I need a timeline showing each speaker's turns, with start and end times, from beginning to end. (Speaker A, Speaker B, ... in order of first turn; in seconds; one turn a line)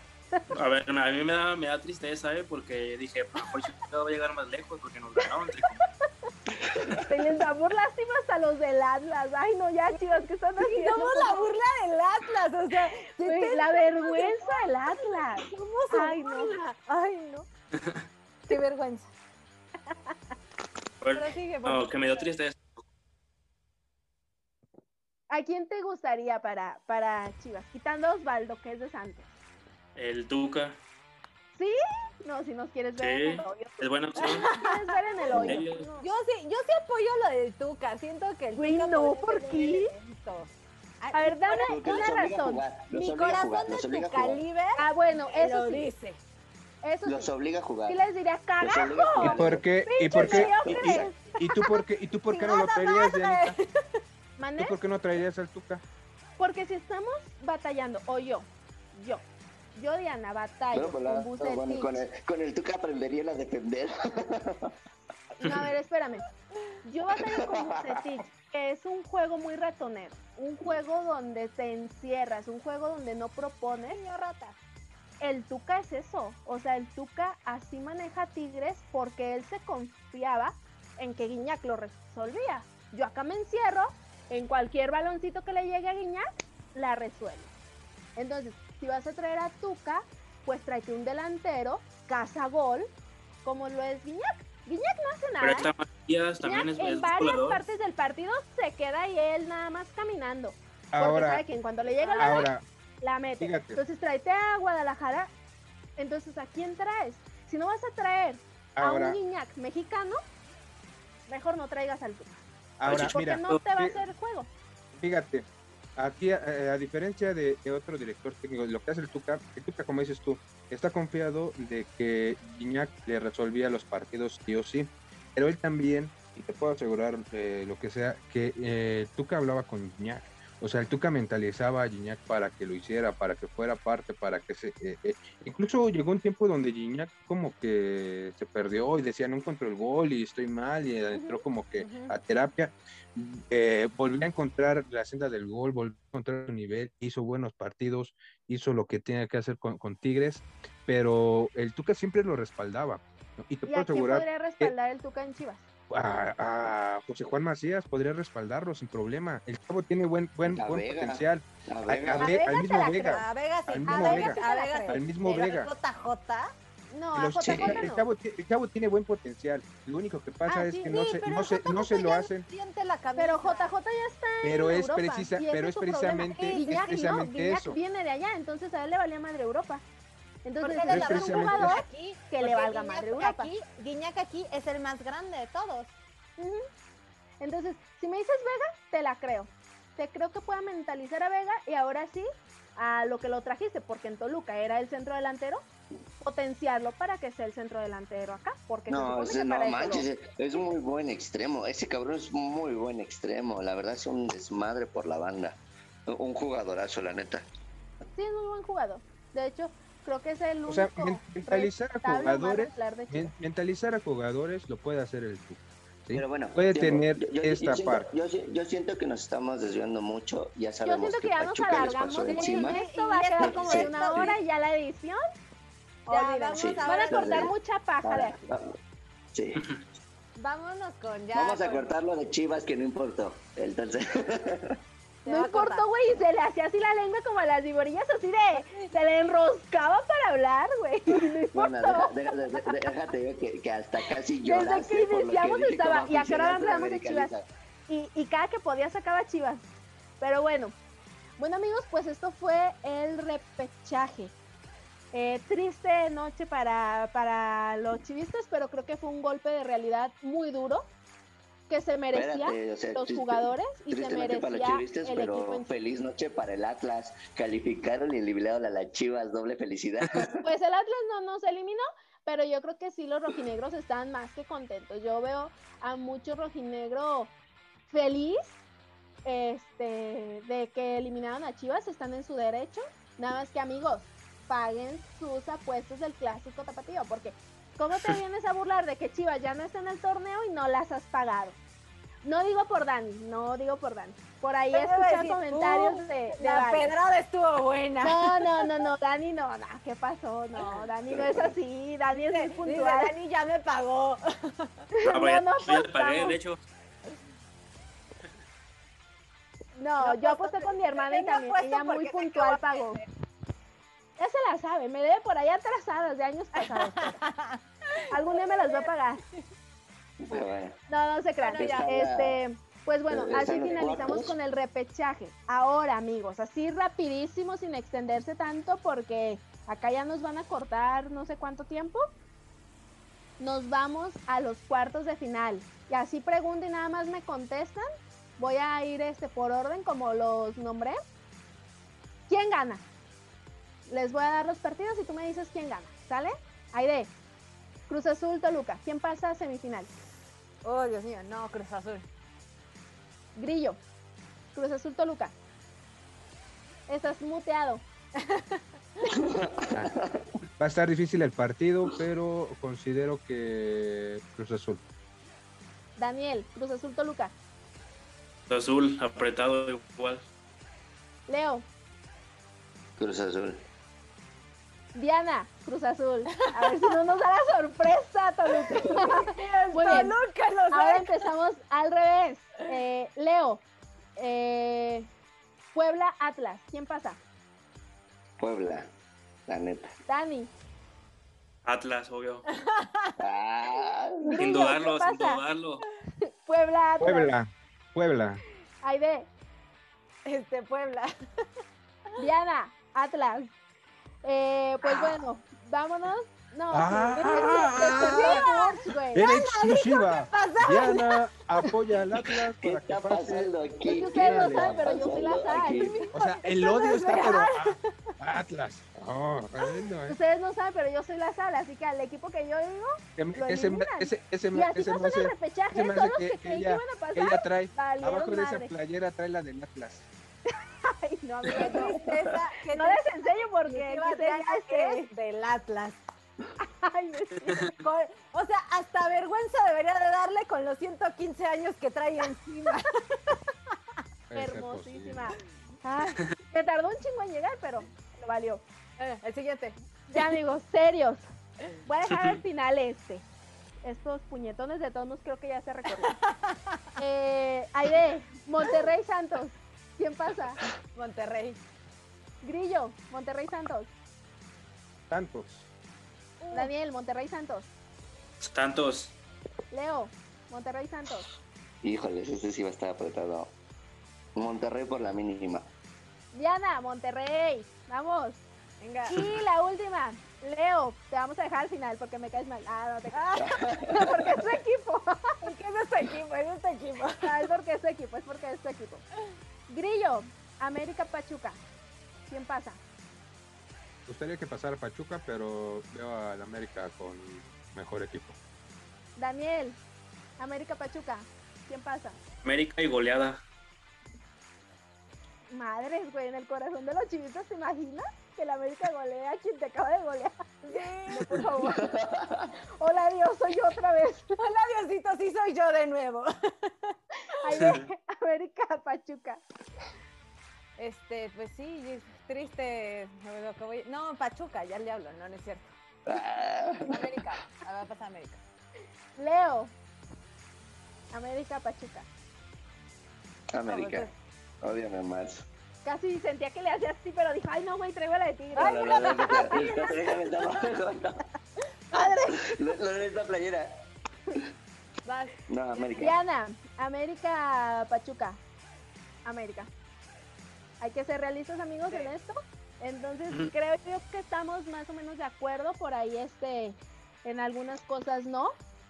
Speaker A: 0.5-5.8
Speaker B: 6.7-7.0
Speaker C: 7.0-11.5
Speaker D: 10.6-17.5
Speaker C: 13.2-16.6
Speaker A: 17.7-18.0
Speaker D: 18.5-19.1
Speaker A: 21.0-22.8
Speaker D: 21.1-22.3
Speaker C: 25.3-29.3
Speaker A: 29.9-30.8
Speaker C: 31.6-36.0
Speaker A: 33.0-34.5
Speaker D: 34.2-41.8
Speaker B: 35.3-35.6
Speaker A: 35.3-35.9
Speaker C: 38.5-39.9
Speaker C: 41.1-42.6
Speaker B: 41.7-44.4
Speaker D: 42.9-46.2
Speaker C: 44.8-45.9
Speaker C: 46.8-47.3
Speaker B: 47.0-48.0
Speaker C: 47.9-51.2
Speaker B: 48.6-51.0
Speaker E: 49.2-53.6
Speaker D: 52.3-54.0
Speaker C: 54.4-54.8
Speaker E: 54.6-55.8
Speaker C: 56.4-59.2
Speaker C: 59.7-62.0
Speaker B: 60.7-64.7
Speaker C: 65.4-66.2
Speaker C: 66.8-74.0
Speaker B: 67.1-68.0
Speaker D: 73.9-74.5
Speaker C: 75.2-87.5
Speaker C: 88.2-92.9
Speaker C: 93.4-95.7
Speaker A: 95.4-97.6
Speaker C: 96.4-102.5
Speaker E: 100.9-101.4
Speaker D: 102.0-102.5
Speaker E: 102.2-102.7
Speaker C: 103.0-105.3
Speaker E: 103.4-103.8
Speaker C: 106.0-110.2
Speaker E: 108.8-109.2
Speaker C: 111.3-114.5
Speaker E: 112.8-114.0
Speaker A: 112.8-113.6
Speaker E: 114.9-154.7
Speaker D: 141.8-142.1
Speaker C: 153.7-155.7
Speaker E: 155.9-165.7
Speaker B: 160.4-162.4
Speaker C: 162.1-163.3
Speaker D: 163.0-166.5
Speaker C: 163.8-165.0
Speaker C: 166.9-168.1
Speaker E: 167.1-172.5
Speaker B: 167.4-167.8
Speaker D: 170.4-173.7
Speaker C: 173.1-179.8
Speaker E: 174.4-177.8
Speaker D: 176.2-177.2
Speaker C: 180.4-183.5
Speaker D: 180.6-185.9
Speaker E: 180.9-181.8
Speaker C: 186.4-186.7
Speaker C: 187.4-195.6
Speaker C: 196.2-200.1
Speaker B: 198.9-207.4
Speaker C: 208.1-213.3
Speaker E: 210.7-218.1
Speaker B: 216.1-222.8
Speaker C: 220.8-225.2
Speaker D: 222.3-224.4
Speaker B: 223.4-224.3
Speaker C: 226.1-228.4
Speaker D: 226.1-227.5
Speaker B: 226.5-228.8
Speaker B: 229.3-229.6
Speaker D: 230.4-231.9
Speaker B: 231.3-234.8
Speaker D: 235.2-235.8
Speaker C: 235.3-242.9
Speaker D: 238.6-238.9
Speaker B: 241.5-247.5
Speaker C: 244.4-247.3
Speaker C: 247.9-249.7
Speaker C: 250.2-250.7
Speaker C: 251.4-254.3
Speaker C: 255.1-260.9
Speaker C: 261.7-265.7
Speaker B: 262.1-270.4
Speaker C: 270.4-277.3
Speaker C: 277.9-278.6
Speaker C: 279.2-291.6
Speaker A: 287.9-288.2
Speaker C: 292.2-296.9
Speaker D: 294.7-298.8
Speaker C: 298.0-303.1
Speaker D: 300.6-300.8
Speaker B: 301.1-301.6
Speaker D: 302.2-304.7
Speaker C: 305.0-306.4
Speaker A: 305.1-306.6
Speaker C: 309.8-313.0
Speaker D: 310.0-313.1
Speaker C: 314.2-317.2
Speaker D: 316.6-319.4
Speaker C: 318.1-319.2
Speaker B: 320.2-320.8
Speaker C: 320.9-332.0
Speaker D: 321.4-321.9
Speaker B: 321.5-322.4
Speaker B: 323.1-324.4
Speaker C: 333.4-337.8
Speaker C: 338.4-341.0
Speaker C: 342.3-342.8
Speaker C: 343.9-347.1
Speaker C: 347.9-349.9
Speaker D: 350.6-352.1
Speaker C: 353.4-353.8
Speaker C: 354.5-355.3
Speaker C: 356.9-357.8
Speaker D: 358.2-359.1
Speaker B: 359.1-360.3
Speaker E: 360.6-364.8
Speaker C: 366.0-367.3
Speaker A: 368.5-370.2
Speaker C: 371.3-371.6
Speaker B: 373.0-373.6
Speaker C: 374.9-380.2
Speaker D: 376.4-376.9
Speaker D: 378.8-381.3
Speaker C: 380.7-383.6
Speaker C: 384.2-385.1
Speaker C: 385.7-387.2
Speaker B: 388.4-388.9
Speaker B: 389.5-389.9
Speaker C: 390.1-390.5
Speaker A: 391.6-392.4
Speaker D: 392.5-393.2
Speaker B: 393.2-394.3
Speaker C: 394.2-395.4
Speaker A: 394.4-395.8
Speaker C: 396.4-397.3
Speaker E: 397.0-398.4
Speaker C: 398.8-399.3
Speaker D: 400.2-401.4
Speaker C: 402.2-403.5
Speaker C: 404.2-409.3
Speaker D: 404.9-405.1
Speaker E: 406.7-408.4
Speaker D: 407.2-411.7
Speaker E: 409.1-415.0
Speaker B: 412.6-416.0
Speaker C: 413.9-417.4
Speaker E: 416.1-420.2
Speaker D: 416.9-418.1
Speaker C: 420.1-428.7
Speaker E: 423.2-430.1
Speaker C: 430.5-432.0
Speaker D: 431.5-436.0
Speaker B: 431.6-432.3
Speaker C: 432.7-435.1
Speaker C: 436.6-437.7
Speaker D: 437.7-443.8
Speaker E: 444.3-445.2
Speaker C: 444.3-448.6
Speaker D: 449.0-450.4
Speaker C: 450.1-451.2
Speaker C: 451.8-453.2
Speaker A: 452.1-452.4
Speaker C: 453.8-456.1
Speaker D: 456.0-456.8
Speaker C: 457.0-460.6
Speaker D: 460.9-461.6
Speaker C: 462.4-463.9
Speaker E: 465.1-465.7
Speaker D: 466.4-466.7
Speaker C: 466.5-467.7
Speaker A: 468.4-469.1
Speaker C: 469.7-471.3
Speaker B: 471.8-473.5
Speaker B: 474.4-475.7
Speaker C: 476.3-478.4
Speaker D: 478.8-479.2
Speaker C: 479.1-485.4
Speaker D: 483.1-484.2
Speaker B: 483.4-484.1
Speaker D: 485.4-487.4
Speaker C: 487.2-489.1
Speaker C: 489.7-491.6
Speaker C: 492.3-492.8
Speaker E: 494.1-498.4
Speaker C: 499.2-499.8
Speaker C: 500.4-502.2
Speaker A: 502.4-503.4
Speaker C: 505.5-510.3
Speaker D: 510.6-511.5
Speaker C: 511.1-511.9
Speaker B: 511.7-512.5
Speaker C: 512.8-514.3
Speaker D: 514.4-517.8
Speaker C: 517.4-519.4
Speaker D: 520.8-525.7
Speaker B: 526.1-527.3
Speaker D: 526.8-528.4
Speaker C: 529.2-529.7
Speaker C: 531.1-532.1
Speaker B: 533.5-534.1
Speaker D: 533.7-534.1
Speaker B: 534.6-535.5
Speaker C: 535.8-539.9
Speaker D: 538.5-540.2
Speaker B: 538.6-541.2
Speaker D: 541.9-542.4
Speaker B: 542.0-543.7
Speaker D: 545.0-546.1
Speaker B: 545.5-546.1
Speaker C: 546.0-548.4
Speaker C: 549.2-549.7
Speaker C: 550.8-558.5